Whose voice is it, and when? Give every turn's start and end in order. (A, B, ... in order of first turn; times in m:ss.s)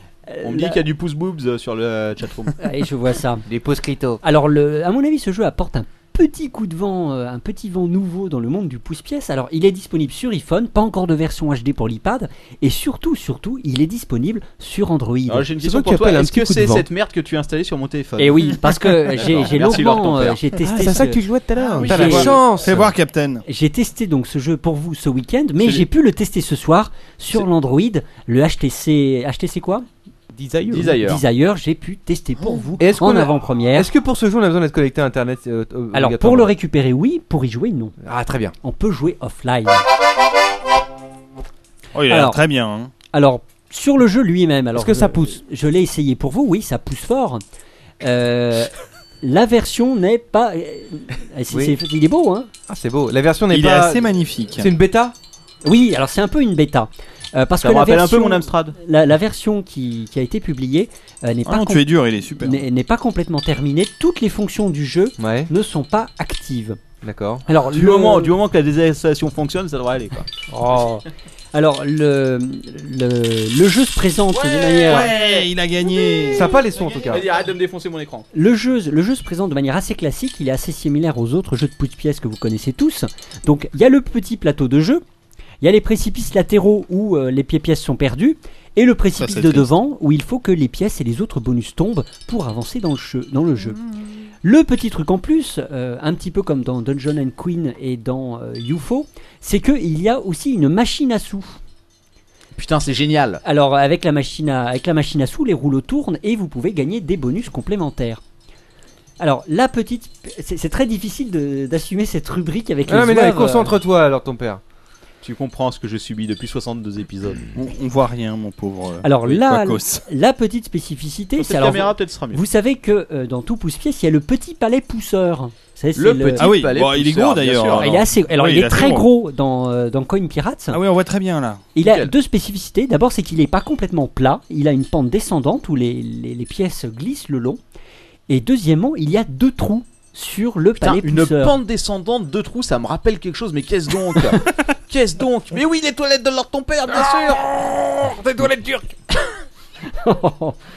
0:00.3-0:00.8 A
0:00.4-0:02.6 B
0:02.6-0:03.4 A
0:03.4-0:04.2 C
0:04.2-0:15.5 A
0:15.3-0:20.4 B
0:15.6-0:16.8 D
0:18.2-0:21.2 A
0:20.6-0:22.0 D
0:21.7-0:22.3 B
0:21.8-0:22.9 C
0:21.8-0:22.4 A
0:21.9-0:23.4 E
0:23.4-0:29.8 A
0:25.6-0:25.8 B
0:30.3-0:31.0 D
0:30.7-0:31.2 B
0:31.0-0:33.9 A
0:32.8-0:36.5 C
0:35.9-0:38.0 A
0:38.0-0:38.5 C
0:38.6-0:39.8 A
0:41.9-0:42.9 E
0:42.1-0:42.4 A
0:43.1-0:47.4 A
0:44.7-0:45.4 D
0:48.0-0:48.7 A
0:49.2-0:52.5 A
0:51.5-0:51.8 C
0:52.7-0:55.1 C
0:53.5-0:54.7 E
0:55.6-1:06.8 A
0:57.6-0:58.8 B
1:01.4-1:02.6 E
1:05.2-1:05.5 C
1:07.0-1:07.4 C
1:07.5-1:08.3 A
1:07.7-1:10.3 B
1:10.5-1:15.1 A
1:14.3-1:15.5 B
1:14.8-1:16.5 E
1:16.0-1:18.3 B
1:16.3-1:17.2 C
1:18.3-1:25.0 A
1:25.6-1:33.8 A
1:29.2-1:29.7 E
1:34.4-1:41.6 A
1:42.5-1:43.4 B
1:43.4-1:48.2 A
1:49.2-1:53.8 A
1:52.9-1:54.6 C
1:55.2-1:57.4 B
1:57.5-2:00.0 E
1:59.0-2:06.5 A
2:01.4-2:02.4 B
2:06.0-2:07.9 B
2:06.4-2:09.1 E
2:07.8-2:10.8 A
2:10.7-2:11.6 E
2:11.7-2:17.6 A
2:11.8-2:12.1 B
2:18.3-2:21.6 A
2:20.8-2:27.5 B
2:29.9-2:30.6 A